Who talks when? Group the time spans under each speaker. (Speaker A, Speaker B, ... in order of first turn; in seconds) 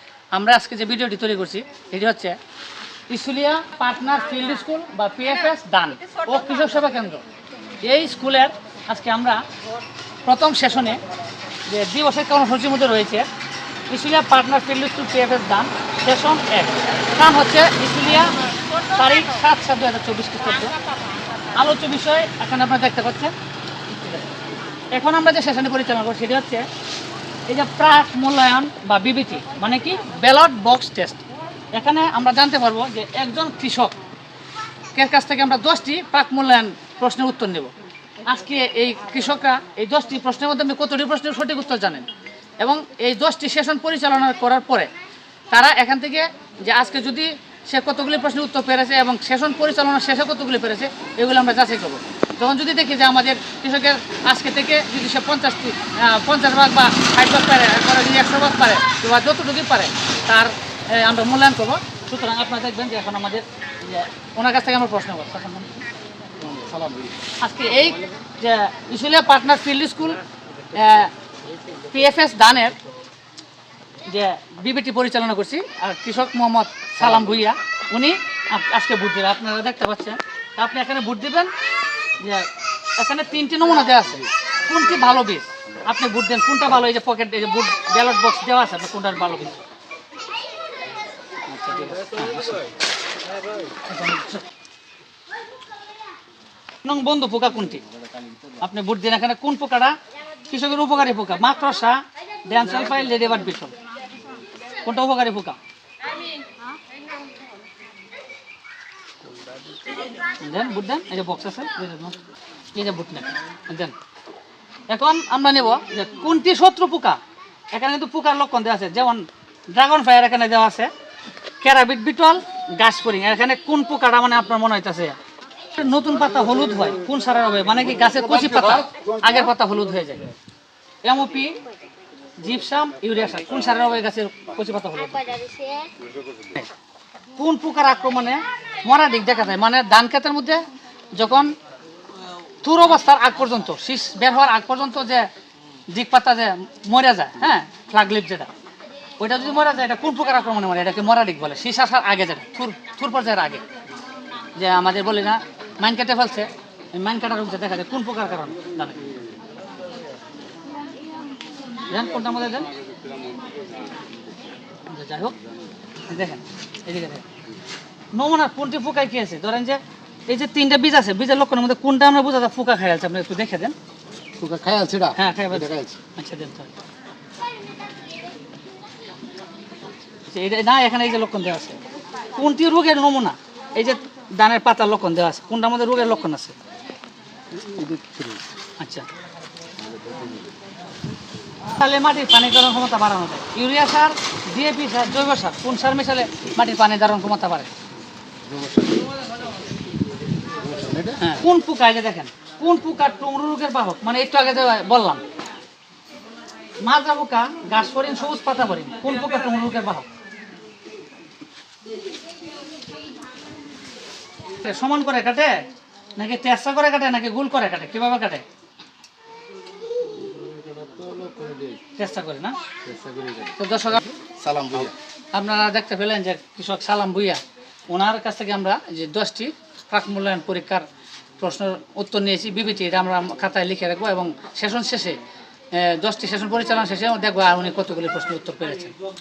Speaker A: 0.3-2.4, 3.1-7.2, 7.8-9.4, 10.2-11.0, 11.7-13.3, 13.9-20.8, 21.5-23.3, 23.9-24.2, 24.9-26.7, 27.5-34.0, 34.9-37.7, 38.2-42.0, 42.6-44.9, 45.5-65.7, 67.4-70.2, 70.7-71.1, 71.8-72.8, 74.1-81.5, 82.2-89.6, 91.5-92.7, 93.8-94.4, 96.8-97.8, 98.6-100.0, 100.5-103.7, 104.8-105.6, 110.4-112.2, 112.7-113.9, 114.9-117.2, 117.7-120.9, 121.6-125.2, 125.7-130.2, 131.0-131.6, 132.4-135.6, 137.3-141.5, 142.6-145.3, 145.9-148.5, 149.2-153.6, 154.6-159.1, 161.9-162.7, 164.9-165.3, 166.1-167.2, 168.1-173.7, 175.1-176.7, 180.3-181.8, 182.3-186.5, 188.8-189.1, 191.7-197.7, 201.2-205.2, 206.8-210.1, 214.6-218.4, 221.9-222.6, 223.6-224.1, 225.3-230.8, 231.4-235.2, 235.7-238.9
Speaker B: 66.4-67.1, 128.1-129.3, 163.0-163.6, 174.4-176.0, 187.5-188.4, 189.8-190.4, 198.4-199.1, 200.5-201.3, 220.2-221.8, 222.8-223.6, 224.2-224.9